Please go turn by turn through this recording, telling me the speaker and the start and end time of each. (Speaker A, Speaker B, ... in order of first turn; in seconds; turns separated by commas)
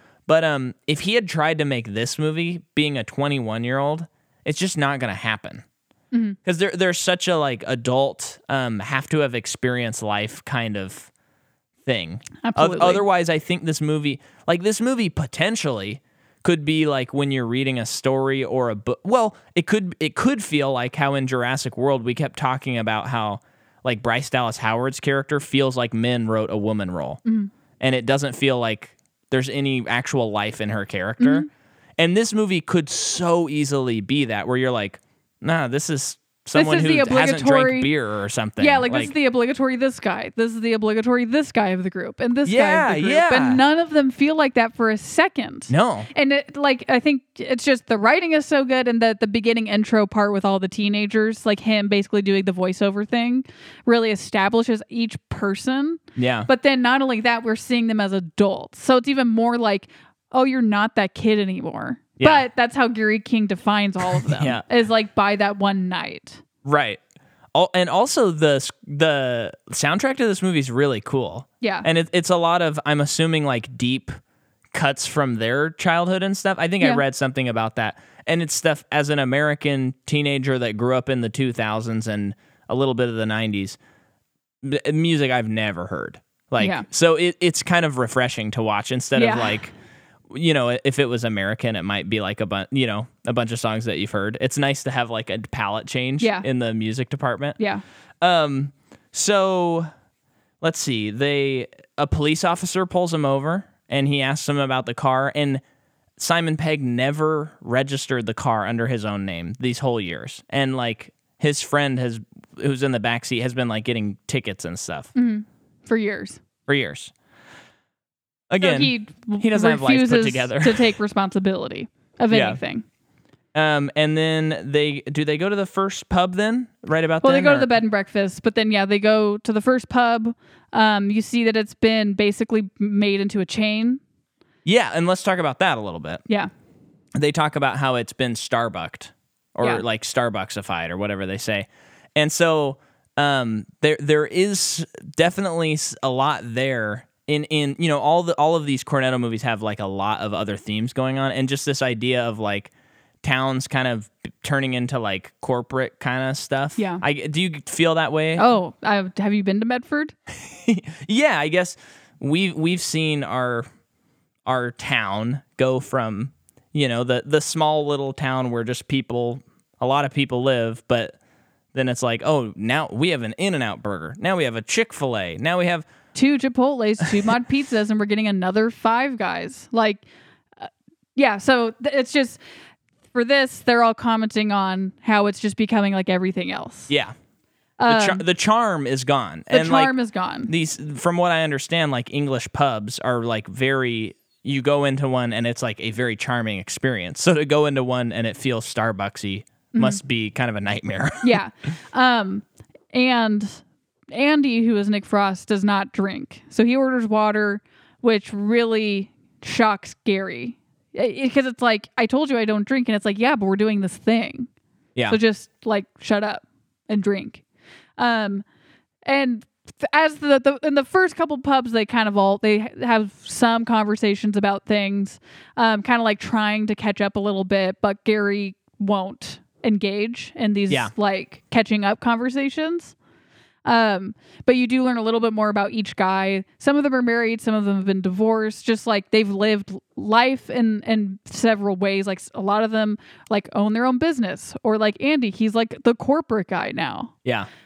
Speaker A: 0.3-5.6, Speaker B: 6.1-6.4, Speaker A: 6.5-11.1, Speaker A: 11.8-27.2, Speaker B: 12.4-13.1, Speaker B: 27.2-27.5, Speaker A: 27.8-31.5, Speaker B: 31.2-31.5, Speaker A: 32.0-39.1, Speaker B: 36.5-37.9, Speaker B: 38.6-66.4, Speaker A: 42.5-43.6, Speaker A: 45.7-46.1, Speaker A: 56.2-56.5, Speaker A: 62.2-62.5, Speaker A: 64.1-64.6, Speaker A: 66.6-67.0, Speaker A: 67.5-74.1, Speaker B: 71.6-71.9, Speaker A: 74.7-83.8, Speaker A: 84.6-89.7, Speaker B: 86.6-86.9, Speaker B: 89.2-89.6, Speaker A: 90.3-97.6, Speaker B: 96.2-96.5, Speaker B: 97.6-97.8, Speaker A: 98.2-99.9, Speaker A: 100.6-105.6, Speaker A: 106.2-115.1, Speaker B: 115.1-116.4, Speaker A: 116.7-117.1, Speaker A: 118.5-120.9, Speaker B: 118.6-122.8, Speaker A: 122.3-122.6, Speaker A: 123.5-127.7, Speaker B: 127.2-134.0, Speaker A: 134.6-136.2, Speaker A: 137.2-152.7, Speaker A: 153.2-158.4, Speaker B: 156.8-157.0, Speaker B: 158.4-160.1, Speaker A: 160.3-163.6, Speaker A: 164.4-171.2, Speaker A: 171.7-175.9, Speaker B: 176.1-180.0, Speaker B: 180.6-182.4, Speaker B: 183.1-186.9, Speaker B: 187.8-188.2, Speaker A: 187.9-189.9, Speaker B: 189.5-190.5, Speaker A: 190.5-201.4, Speaker B: 199.7-200.0, Speaker B: 201.2-214.5, Speaker B: 215.1-217.4, Speaker B: 218.0-218.4, Speaker B: 219.1-232.9, Speaker B: 233.6-247.1